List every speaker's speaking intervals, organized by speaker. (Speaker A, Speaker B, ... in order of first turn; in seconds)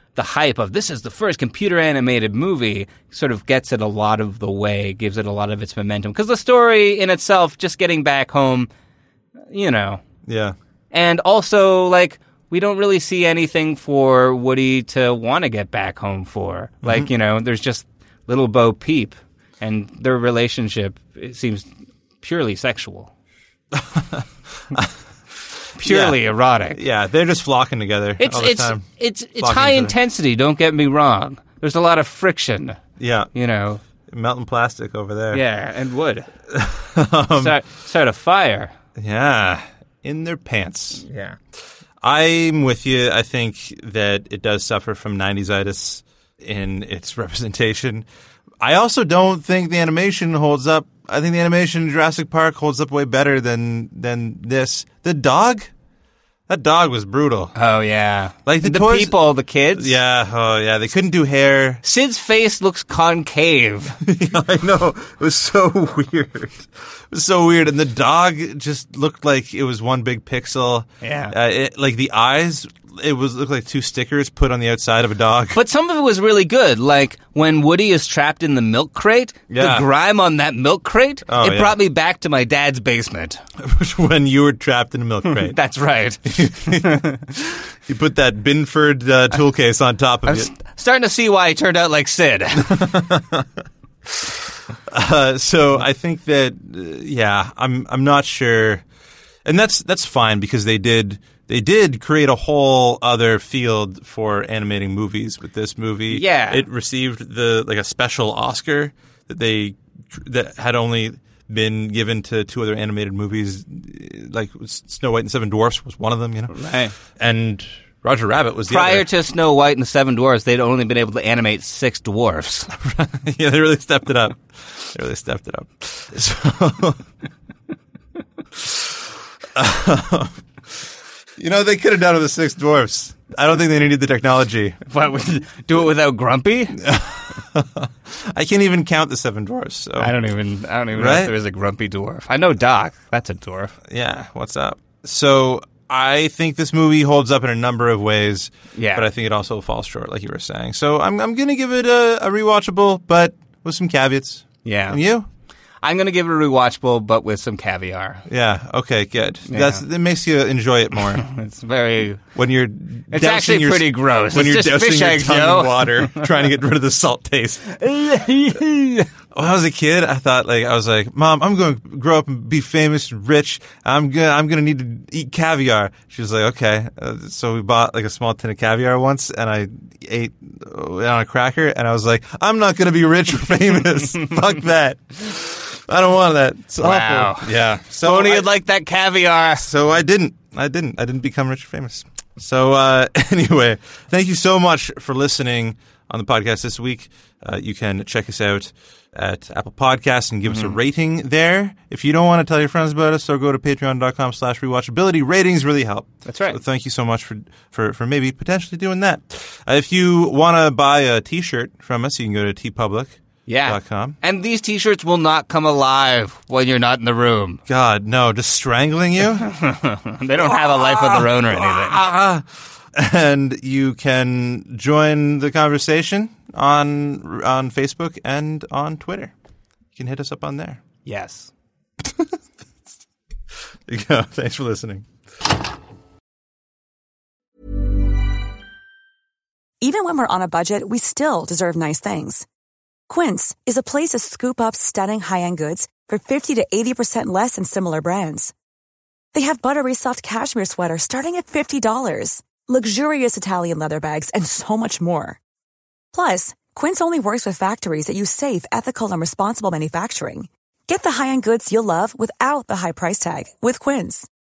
Speaker A: 0.1-8.7, 9.5-10.0, 10.9-21.7, 22.2-23.1, 25.8-26.8, 28.2-32.8, 33.3-33.8, 35.3-36.3, 37.4-38.7, 41.1-41.4, 57.6-59.9, 61.8-64.0, 71.0-71.3, 75.5-83.4, 85.3-87.2, 90.3-93.0, 106.1-106.6, 116.5-116.9, 118.7-122.7, 134.9-136.8, 140.0-143.7, 148.8-149.1, 154.7-155.0, 155.8-158.2, 159.5-159.8, 161.3-162.2, 163.1-166.3, 167.8-169.1, 186.8-189.7, 200.5-200.8, 206.3-206.6, 213.5-217.6, 219.4-222.0, 231.1-231.5
Speaker B: 10.3-10.6, 16.8-17.1, 23.7-24.9, 25.8-26.2, 26.7-28.9, 29.4-29.9, 33.0-33.3, 34.1-35.4, 36.5-37.5, 39.0-41.0, 42.0-48.1, 48.6-55.7, 56.5-57.5, 58.5-59.1, 59.7-61.8, 64.0-75.6, 79.5-79.9, 81.3-81.8, 83.6-85.6, 86.3-87.1, 87.9-90.5, 92.6-93.5, 94.9-98.8, 99.5-116.5, 117.2-119.1, 122.7-127.0, 128.6-128.9, 129.6-130.8, 131.4-134.8, 136.8-140.1, 140.9-141.3, 143.9-155.3, 158.3-161.3, 162.4-167.8, 169.3-188.5, 189.6-214.2, 217.7-219.5, 220.4-229.3, 230.0-230.8, 232.0-232.3, 233.9-235.1
Speaker C: 239.8-242.4, 243.1-248.5, 249.3-255.4, 256.1-264.3